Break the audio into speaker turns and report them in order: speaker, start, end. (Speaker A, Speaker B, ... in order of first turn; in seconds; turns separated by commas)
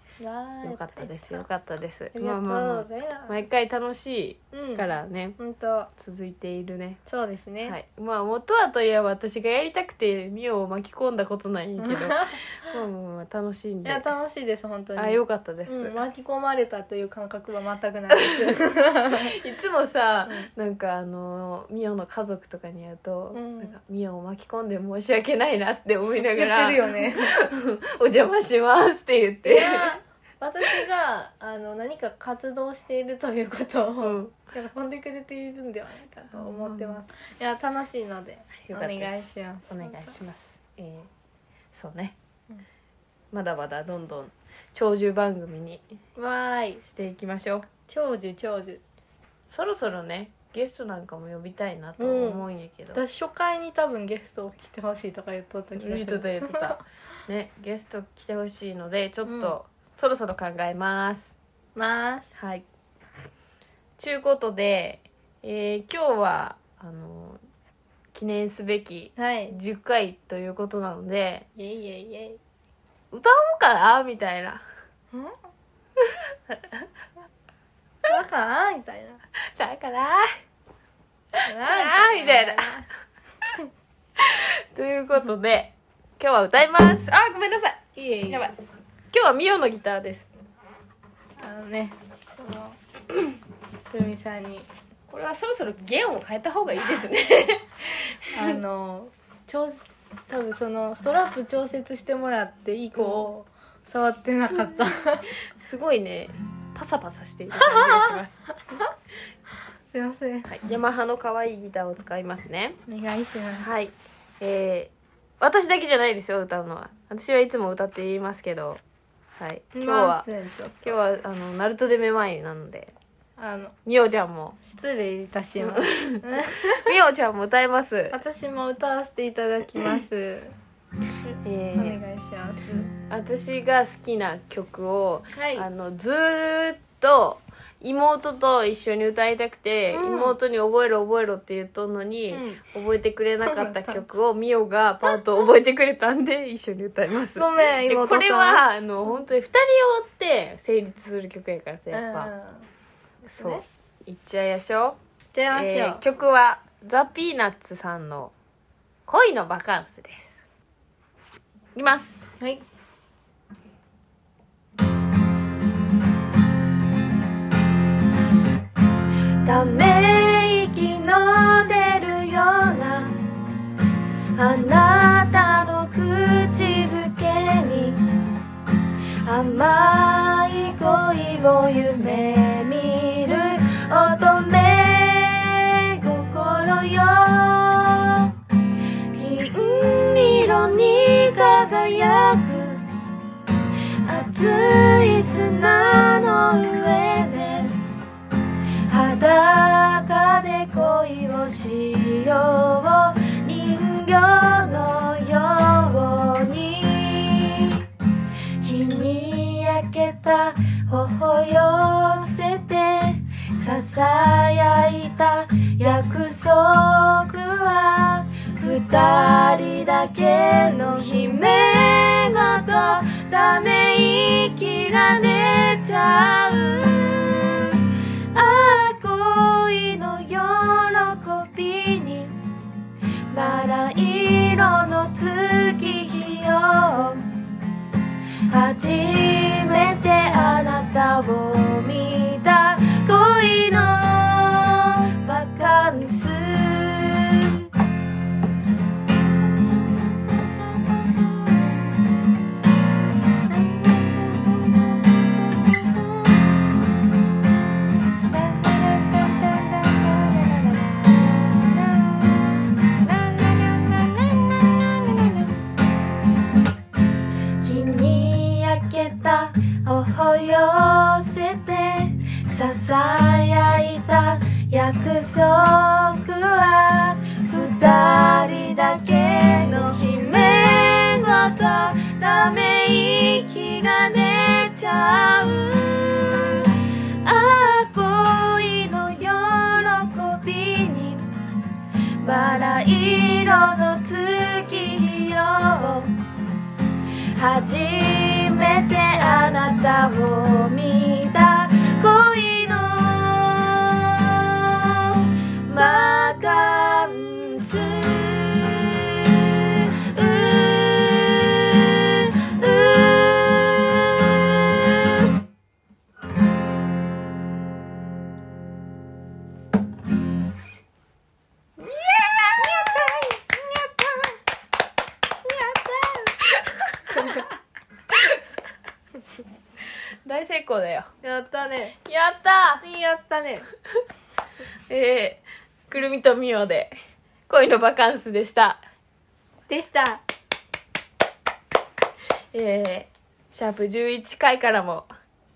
Speaker A: 0.2-1.4, Speaker B: 0.6-5.4, Speaker A: 2.1-3.5, Speaker A: 4.5-5.9, Speaker B: 6.0-7.0, Speaker A: 7.0-7.8, Speaker B: 7.6-14.1, Speaker A: 11.8-12.4, Speaker A: 13.8-19.3, Speaker B: 15.0-15.9, Speaker B: 18.1-18.6, Speaker B: 19.1-29.9, Speaker A: 23.3-23.8, Speaker A: 26.2-27.3, Speaker A: 29.4-40.1, Speaker B: 34.0-34.3, Speaker B: 36.3-37.0, Speaker B: 38.7-41.1, Speaker B: 41.7-42.1, Speaker B: 43.3-45.8, Speaker A: 46.1-46.8, Speaker B: 46.8-47.7, Speaker A: 47.9-48.8, Speaker B: 49.5-53.0, Speaker A: 52.0-56.8, Speaker B: 55.8-61.3, Speaker A: 59.2-59.5, Speaker A: 61.8-62.3, Speaker B: 62.3-62.6, Speaker B: 64.0-67.4, Speaker B: 68.1-71.5, Speaker A: 69.2-69.5, Speaker A: 71.5-72.4, Speaker B: 73.1-74.6, Speaker B: 76.0-76.8, Speaker A: 78.0-79.2, Speaker B: 79.5-80.3, Speaker B: 81.3-82.7, Speaker A: 81.5-82.9, Speaker B: 84.2-88.5, Speaker A: 87.9-88.5, Speaker B: 89.1-90.3, Speaker A: 91.4-92.8, Speaker A: 93.9-94.7, Speaker B: 95.1-97.7, Speaker A: 98.3-105.3, Speaker B: 102.9-103.3, Speaker B: 105.5-108.4, Speaker A: 107.6-108.2, Speaker A: 109.9-110.5, Speaker B: 110.5-112.8, Speaker A: 112.9-113.7, Speaker B: 113.6-118.8, Speaker B: 119.4-120.3, Speaker A: 119.7-121.0, Speaker B: 120.8-122.9, Speaker A: 123.4-123.7, Speaker B: 123.8-124.6, Speaker A: 124.6-126.8, Speaker B: 125.6-128.2, Speaker A: 128.1-130.5, Speaker B: 131.4-132.0, Speaker A: 131.7-132.9, Speaker B: 132.9-152.3, Speaker A: 135.3-135.7, Speaker A: 139.9-140.4, Speaker A: 142.3-142.6, Speaker A: 143.4-144.0, Speaker A: 147.3-148.6, Speaker A: 151.9-152.7, Speaker A: 153.2-153.6, Speaker B: 153.3-155.0, Speaker A: 155.3-156.0, Speaker B: 155.5-158.3, Speaker B: 159.1-160.4, Speaker B: 161.7-162.3, Speaker A: 162.4-162.6, Speaker B: 169.4-173.2, Speaker B: 174.3-178.1, Speaker B: 179.2-188.3, Speaker B: 189.1-192.8, Speaker B: 194.0-197.8, Speaker B: 198.9-207.8, Speaker B: 208.6-232.4, Speaker B: 233.3-237.2, Speaker B: 238.5-247.7, Speaker A: 253.7-254.7, Speaker A: 258.3-260.8, Speaker B: 263.1-265.4, Speaker B: 267.6-291.2, Speaker B: 292.2-296.1, Speaker B: 297.3-315.3, Speaker B: 321.8-323.2, Speaker A: 322.6-324.4, Speaker A: 325.4-326.4, Speaker B: 326.5-327.5, Speaker A: 327.1-327.4, Speaker B: 328.1-328.4, Speaker B: 330.2-331.1, Speaker A: 331.2-331.9, Speaker B: 332.0-332.8, Speaker A: 332.8-333.7, Speaker B: 334.9-336.9, Speaker B: 337.5-338.8, Speaker A: 339.7-340.2, Speaker B: 342.5-345.1